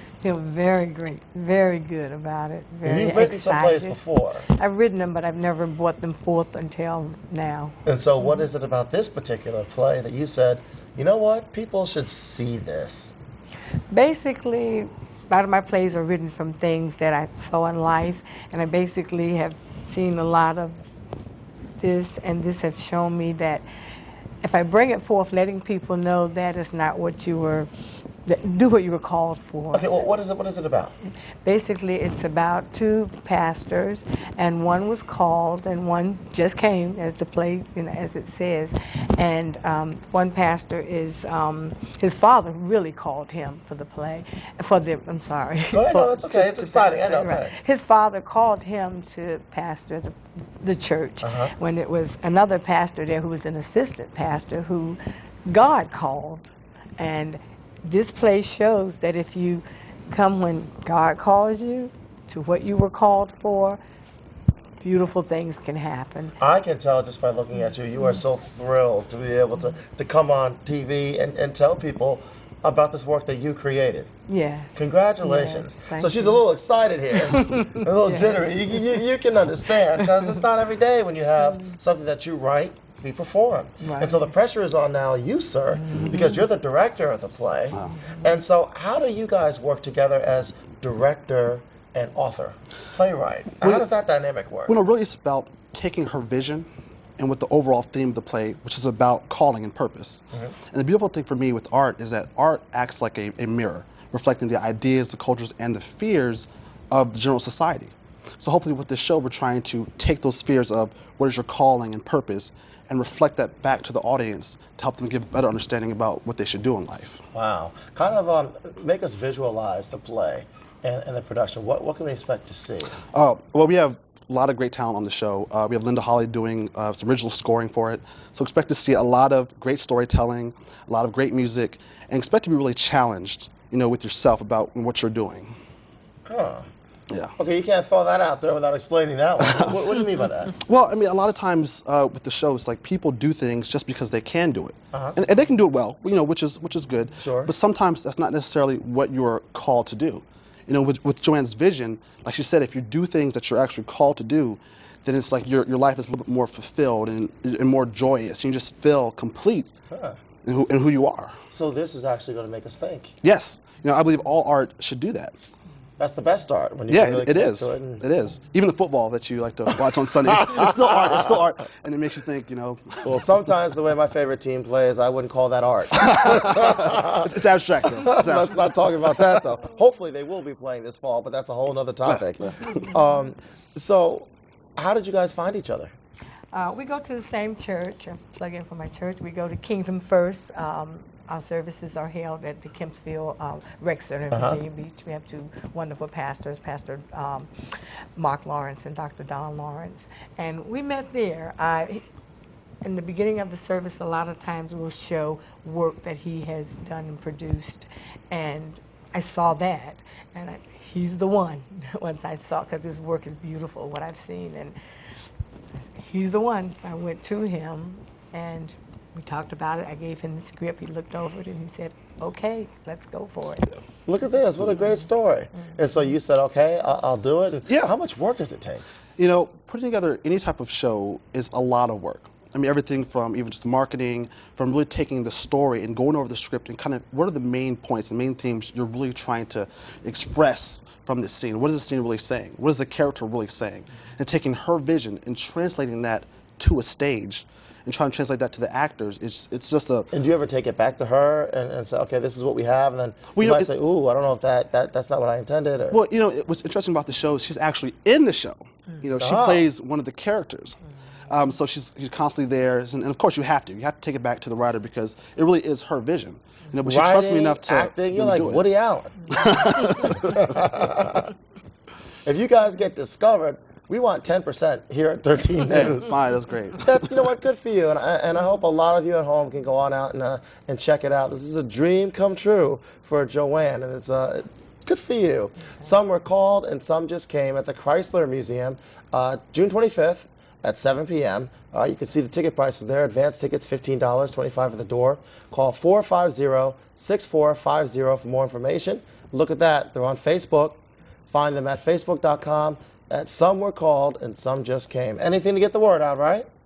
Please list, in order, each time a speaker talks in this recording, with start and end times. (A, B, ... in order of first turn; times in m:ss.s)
0:00.2-0:08.5 A
0:02.8-0:04.5 B
0:07.9-0:13.1 B
0:13.9-0:20.8 A
0:21.8-0:23.7 A
0:24.4-0:27.7 A
0:28.2-0:30.0 A
0:29.7-0:30.9 B
0:31.4-1:03.8 A
0:45.7-0:47.6 B
0:51.2-0:51.5 B
1:04.8-1:06.4 A
1:06.4-1:14.1 B
1:14.3-1:16.4 A
1:14.8-1:34.8 B
1:17.3-1:19.0 A
1:20.0-1:20.4 A
1:21.4-1:21.7 A
1:23.8-1:24.3 A
1:25.7-1:26.5 A
1:27.9-1:28.4 A
1:33.6-1:33.8 C
1:34.7-1:36.7 C
1:37.2-1:57.2 C
1:57.3-2:03.0 B
2:03.1-2:15.5 C
2:16.3-2:16.7 B
2:17.4-2:20.5 B
2:19.4-2:20.1 C
2:20.6-2:39.7 C
2:24.9-2:25.2 B
2:27.2-2:27.5 B
2:39.9-2:40.2 B
2:40.4-2:41.4 C
2:41.5-2:43.1 B
2:43.2-2:45.4 C
2:46.0-2:48.1 B
2:46.9-2:53.4 C
2:53.0-2:57.4 B
2:56.0-2:59.3 C
2:58.0-3:05.9 B
3:02.1-3:02.8 C
3:06.5-3:17.5 A
3:14.3-3:14.6 B
3:18.2-3:22.0 A
3:22.8-3:34.8 A
3:35.8-3:43.7 A
3:44.1-3:48.8 B
3:47.7-3:47.9 C
3:49.2-4:10.1 C
4:10.1-4:16.0 B
4:13.3-4:13.7 C
4:15.9-4:28.7 C
4:19.2-4:19.7 B
4:26.8-4:31.3 B
4:29.3-4:30.4 C
4:32.3-4:36.1 B
4:35.6-4:37.1 C
4:36.8-5:00.8 B
5:01.3-5:06.5 B